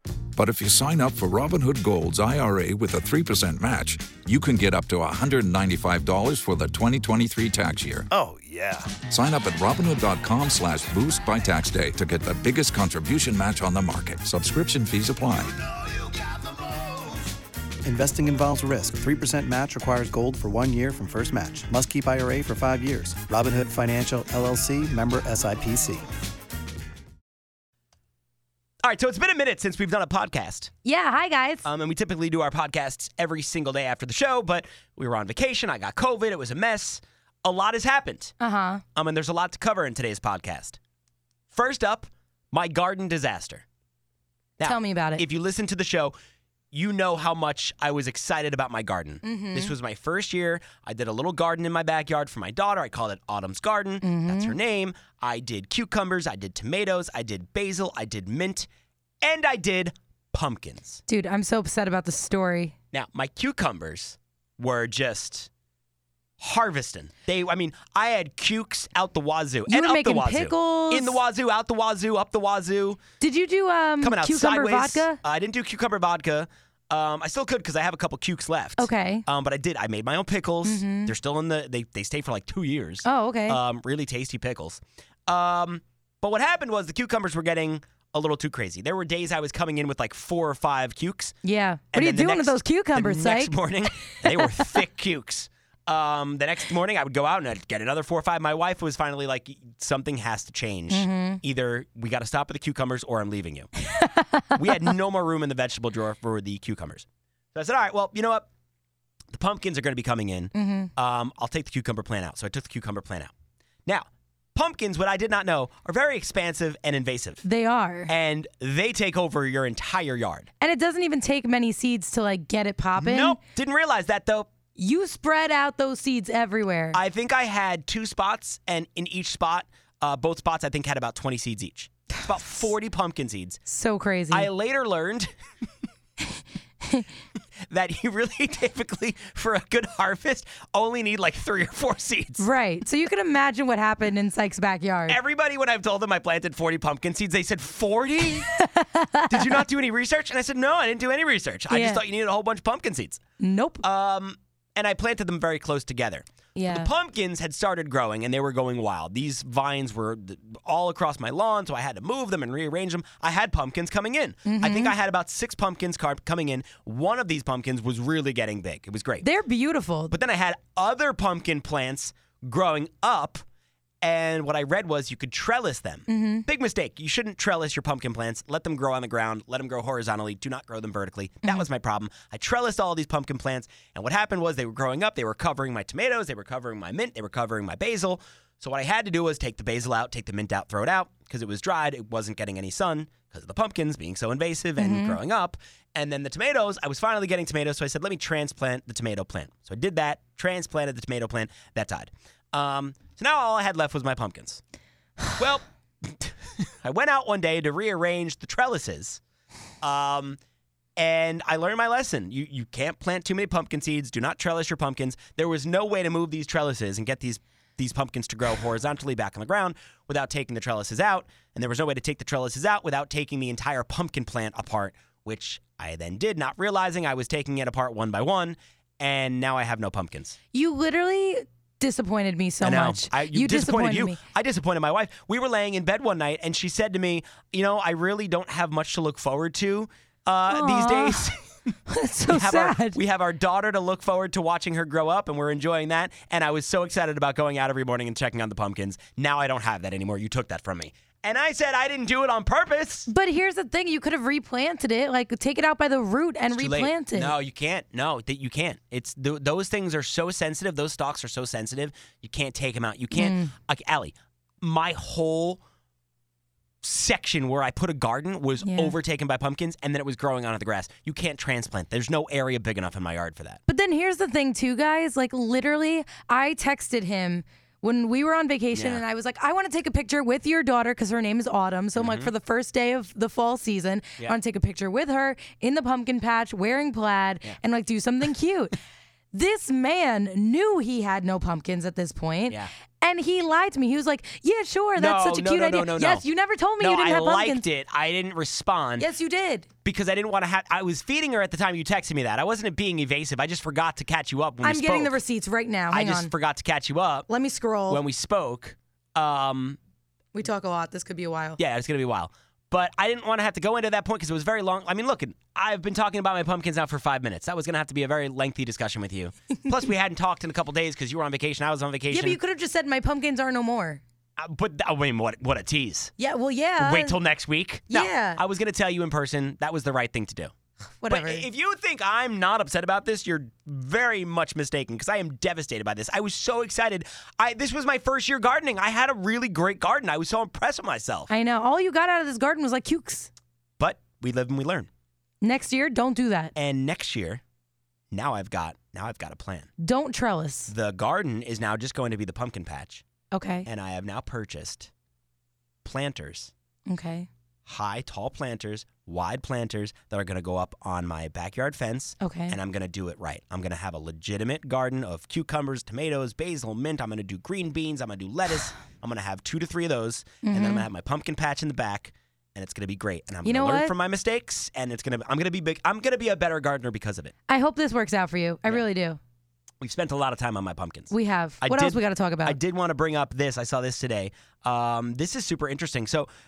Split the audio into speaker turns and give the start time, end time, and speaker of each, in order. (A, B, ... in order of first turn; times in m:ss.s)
0:00.4-0:08.1 A
0:08.1-0:08.9 B
0:09.0-0:15.5 A
0:17.8-0:26.0 B
0:28.8-0:30.7 C
0:30.8-0:31.6 D
0:31.6-0:38.3 C
0:38.4-0:38.8 D
0:38.9-0:40.8 C
0:41.5-0:43.6 C
0:44.6-0:46.1 C
0:44.6-0:45.2 D
0:46.7-0:58.7 C
0:49.2-0:49.7 D
0:54.0-0:54.5 D
0:59.2-1:01.0 C
1:01.1-1:02.7 D
1:02.9-1:05.5 C
1:06.4-1:13.0 C
1:09.7-1:11.2 D
1:13.2-1:15.2 D
1:14.0-1:31.4 C
1:18.8-1:19.2 D
1:20.6-1:21.1 D
1:23.0-1:23.6 D
1:31.4-1:34.3 D
1:31.9-1:43.7 C
1:40.9-1:41.4 D
1:43.8-1:44.4 D
1:44.5-1:48.5 C
1:49.3-1:53.3 C
1:50.5-1:50.9 D
1:53.8-1:57.4 C
1:57.4-1:58.1 D
1:58.1-2:00.5 C
2:00.6-2:03.4 D
2:03.0-2:04.5 C
2:04.8-2:07.0 D
2:06.9-2:13.6 C
2:13.6-2:14.5 D
2:14.3-2:15.3 C
2:17.7-2:22.4 C
2:22.4-2:25.2 D
2:25.1-2:28.5 C
2:28.5-2:29.4 D
2:29.3-2:33.2 C
2:31.7-2:32.0 D
2:33.4-2:33.8 D
2:33.8-2:49.2 C
2:36.5-2:36.9 D
2:44.4-2:44.9 D
2:49.2-2:50.1 D
2:50.1-2:53.4 C
2:54.0-3:24.6 C
2:56.1-2:56.4 D
3:14.8-3:15.2 D
3:25.4-3:29.2 C
3:29.8-3:30.4 C
3:31.0-3:50.4 C
3:50.5-3:54.2 D
3:52.6-4:01.7 C
4:00.5-4:01.2 D
4:01.9-4:03.0 D
4:02.3-4:13.1 C
4:13.1-4:17.3 D
4:16.5-4:25.6 C
4:23.1-4:23.5 D
4:26.8-4:33.6 C
4:28.6-4:28.9 D
4:33.7-4:48.8 D
4:38.7-4:39.0 C
4:42.0-4:42.3 C
4:49.3-4:57.6 D
4:55.0-4:56.2 C
4:56.8-4:59.1 C
4:59.0-4:59.7 D
4:59.8-5:05.2 C
5:04.6-5:06.3 D
5:05.9-5:07.3 C
5:07.3-5:08.0 D
5:07.9-5:09.8 C
5:10.3-5:11.6 D
5:11.6-5:22.4 C
5:22.1-5:24.0 D
5:24.4-5:26.1 C
5:26.2-5:27.2 D
5:26.8-5:30.5 C
5:27.9-5:28.4 D
5:31.0-5:31.5 D
5:31.1-5:41.3 C
5:41.3-5:43.3 D
5:43.8-5:44.9 C
5:45.4-5:46.5 D
5:46.6-5:47.4 C
5:48.1-5:49.7 C
5:49.8-5:50.7 D
5:50.7-5:53.0 C
5:53.3-5:53.7 D
5:53.6-5:54.9 C
5:55.8-5:56.5 C
5:56.9-5:57.3 D
5:57.6-6:17.3 C
6:02.2-6:02.6 D
6:10.4-6:10.8 D
6:13.4-6:13.9 D
6:17.5-6:19.2 D
6:19.8-6:26.3 C
6:21.1-6:22.6 D